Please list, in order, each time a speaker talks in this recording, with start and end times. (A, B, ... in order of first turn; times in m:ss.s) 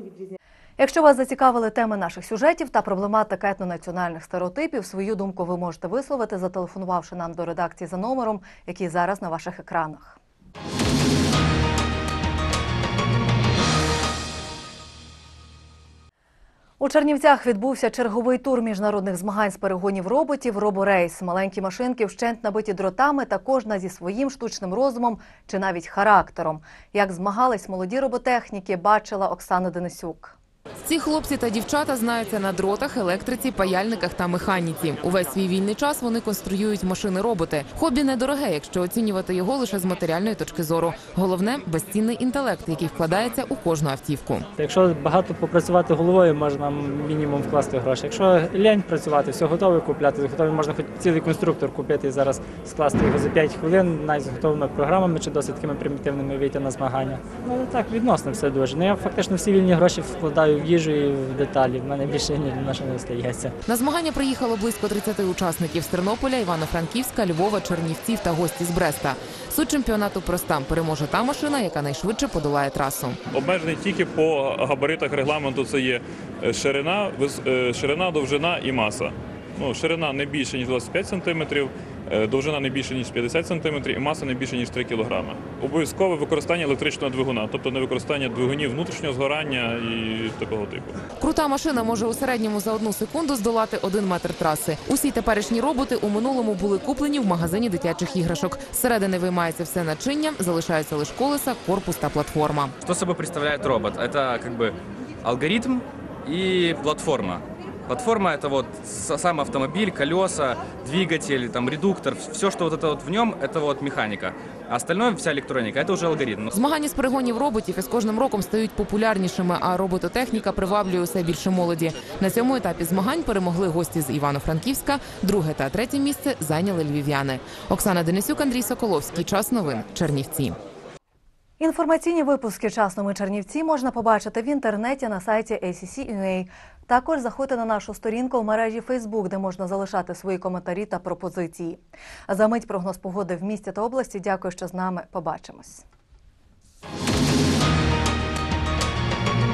0:00.8-0:10.2 A
0:16.8-0:30.4 A
0:30.8-0:44.5 B
0:44.6-1:03.5 C
1:03.7-1:13.2 B
1:13.3-1:31.0 D
1:31.2-1:42.8 B
1:42.8-1:56.5 E
1:56.5-2:10.6 B
2:11.6-2:25.8 A